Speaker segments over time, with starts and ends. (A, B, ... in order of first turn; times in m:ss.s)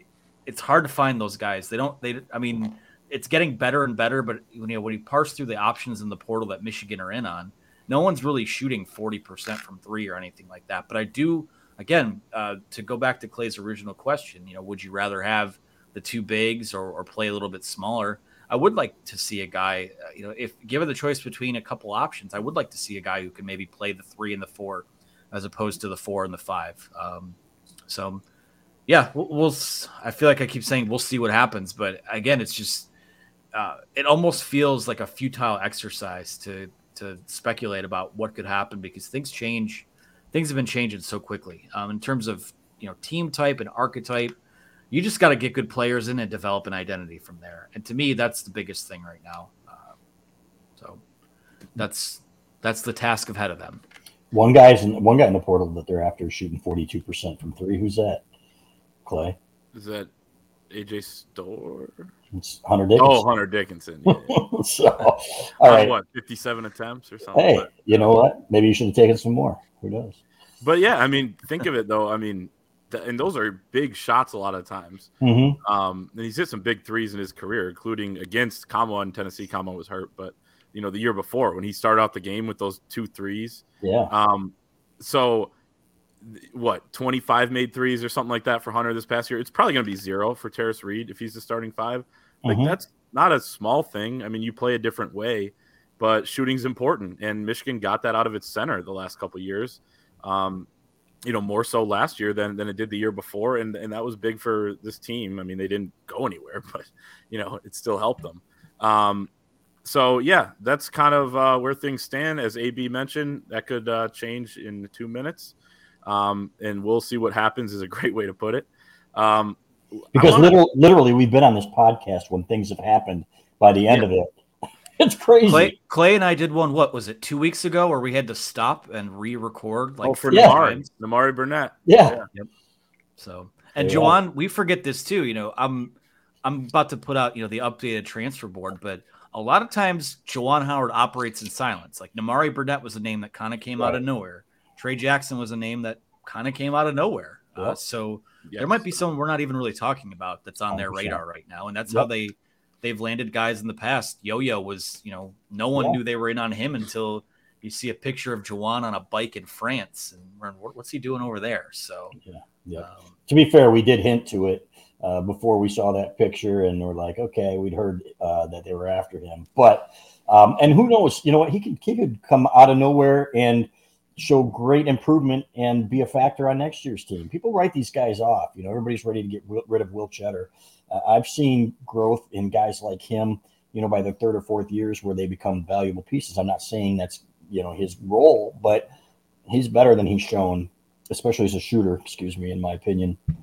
0:00.4-0:27.4 A
0:27.9-0:28.2 A
0:28.9-0:32.9 A
0:33.5-0:44.3 A
0:44.9-0:49.9 A
0:51.8-0:53.8 A
0:54.3-0:58.2 B
0:59.0-0:59.4 B
0:59.7-1:00.1 C
1:00.7-1:02.1 C
1:02.3-1:03.2 B
1:03.0-1:04.4 C
1:04.1-1:06.0 B
1:05.6-1:08.1 C
1:07.3-1:10.2 B
1:10.6-1:15.1 C
1:15.2-1:15.6 B
1:15.6-1:25.5 C
1:23.8-1:24.1 B
1:26.2-1:40.7 C
1:32.4-1:32.8 B
1:41.2-1:49.3 C
1:49.8-1:59.6 C
2:00.1-2:00.5 C
2:00.1-2:04.3 B
2:05.0-2:05.7 B
2:05.4-2:10.9 A
2:10.0-2:12.2 C
2:11.9-2:12.2 B
2:13.2-2:42.2 A
2:13.8-2:14.2 B
2:28.5-2:29.0 C
2:30.7-2:31.2 B
2:42.2-3:08.9 B
2:42.8-2:43.1 A
3:09.5-3:13.2 B